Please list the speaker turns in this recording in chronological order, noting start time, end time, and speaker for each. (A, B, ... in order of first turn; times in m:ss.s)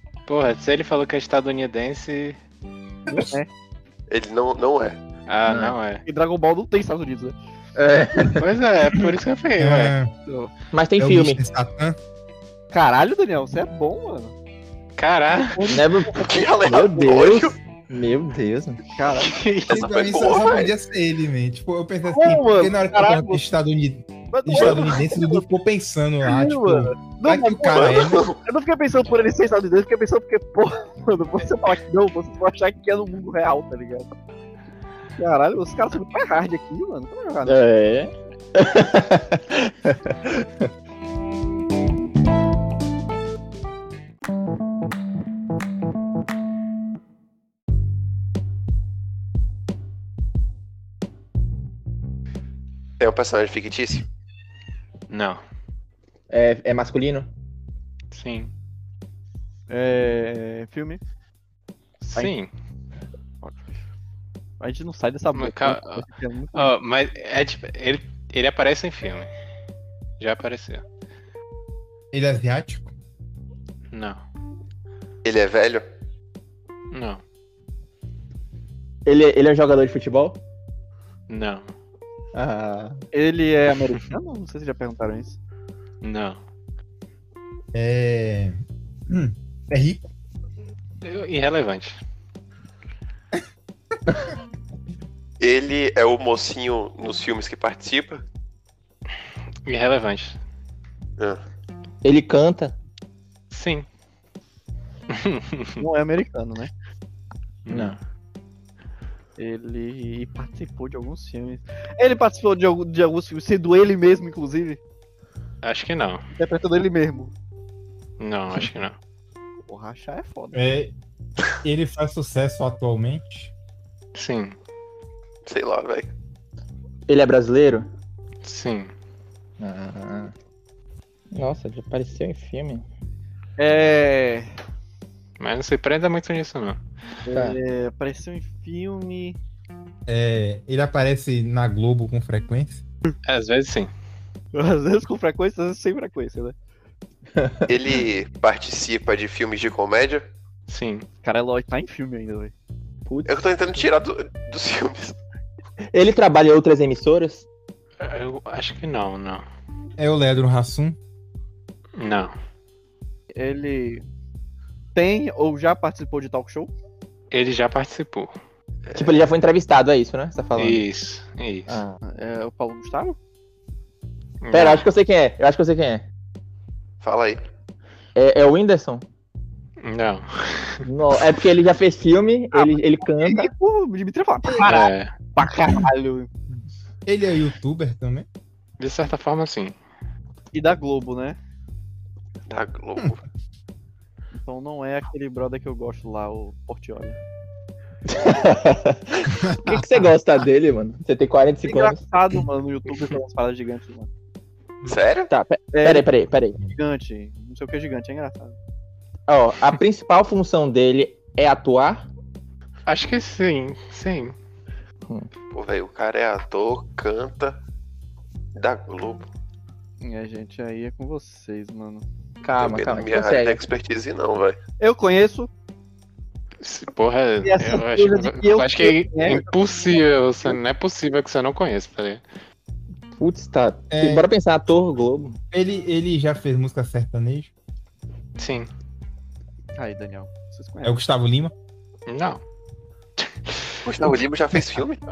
0:00.3-0:02.4 A
0:03.1-0:03.5 B
0:04.1-0:05.0 C
0:05.3-0:06.0 A
0:05.5-0:05.8 D
0:06.1-0:07.4 B
0:07.8-0:08.5 D
0:08.4-0:09.9 A
0:09.6-0:10.1 E
0:10.3-0:10.5 B
0:10.7-0:11.4 D
0:11.0-0:12.0 E
0:12.7-0:14.3 B
0:15.0-0:15.6 A
0:15.5-0:16.5 B
0:15.7-0:18.8 D
0:16.3-0:17.6 C
0:18.9-0:19.4 B
0:19.2-0:19.9 A
0:19.7-0:20.7 C
0:19.7-0:28.3 E
0:22.1-0:23.4 B
0:24.3-0:25.5 B
0:24.6-0:24.8 C
0:26.2-0:34.1 B
0:27.7-0:28.4 C
0:35.2-0:37.6 B
0:37.4-0:40.7 D
0:53.0-0:54.1 C
0:55.1-0:55.4 A
0:56.3-0:57.3 D
0:58.1-0:58.5 A
0:59.7-1:01.0 B
1:02.0-1:02.5 A
1:03.4-1:03.8 B
1:04.6-1:06.7 B
1:05.4-1:09.3 A
1:10.2-1:10.8 A
1:12.1-1:12.9 E
1:13.9-1:14.2 A
1:15.2-1:15.8 C
1:16.9-1:17.2 A
1:19.1-1:20.4 D
1:21.3-1:21.7 A
1:22.3-1:23.0 D
1:23.1-1:25.4 B
1:26.0-1:26.4 A
1:27.7-1:30.0 E
1:31.0-1:32.0 A
1:35.4-1:38.2 C
1:39.7-1:40.4 A
1:42.0-1:42.8 D
1:43.5-1:43.9 A
1:45.1-1:45.8 A
1:45.8-1:46.7 B
1:47.7-1:48.0 A
1:47.7-1:48.0 D
1:49.4-1:54.8 B
1:55.6-1:56.2 A
1:56.4-1:57.3 B
1:58.2-1:59.0 A
1:59.7-2:00.7 B
2:00.5-2:00.9 E
2:01.6-2:03.5 E
2:04.2-2:04.6 A
2:05.5-2:06.1 C
2:07.1-2:07.9 D
2:08.4-2:08.9 A
2:09.6-2:10.3 D
2:11.3-2:12.8 D
2:13.6-2:14.5 B
2:15.4-2:16.8 A
2:17.2-2:19.4 B
2:20.1-2:22.8 E
2:23.2-2:23.9 A
2:24.5-2:26.6 B
2:27.4-2:27.7 D
2:27.7-2:30.3 C
2:30.7-2:31.1 A
2:31.2-2:32.5 B
2:33.1-2:33.4 D
2:33.3-2:35.2 C
2:35.9-2:37.5 D
2:38.0-2:39.4 A
2:40.0-2:41.0 E
2:42.0-2:42.3 A
2:43.3-2:44.0 B
2:45.0-2:46.7 B
2:47.3-2:48.3 A
2:49.0-2:50.8 D
2:50.6-2:51.8 A
2:51.7-2:52.0 D
2:52.0-2:53.2 B
2:54.4-2:54.9 A
2:54.5-2:56.0 D
2:57.0-2:57.4 C
2:58.2-2:59.0 D
2:59.8-3:00.8 A
3:00.8-3:03.5 D
3:02.5-3:06.3 B
3:04.7-3:05.1 A
3:07.0-3:08.3 E
3:08.8-3:09.8 A
3:10.5-3:11.4 B
3:12.5-3:13.2 C
3:14.4-3:17.2 B
3:18.1-3:22.0 D
3:19.4-3:19.9 E
3:21.6-3:24.1 B
3:24.9-3:25.3 C
3:25.3-3:26.6 D
3:25.7-3:28.6 B
3:29.3-3:32.1 D
3:32.9-3:34.4 A
3:35.5-3:37.6 C
3:38.6-3:39.3 C
3:40.0-3:42.0 B
3:42.4-3:43.6 D
3:42.6-3:44.6 C
3:44.8-3:45.5 B
3:46.6-3:52.2 A
3:47.4-3:49.5 B
3:53.2-3:55.4 D
3:53.9-3:54.3 E
3:55.5-3:57.5 E
3:58.4-3:58.7 A
3:59.8-4:01.0 B
4:00.8-4:01.5 E
4:02.1-4:02.4 A
4:03.2-4:03.8 A
4:03.8-4:05.0 C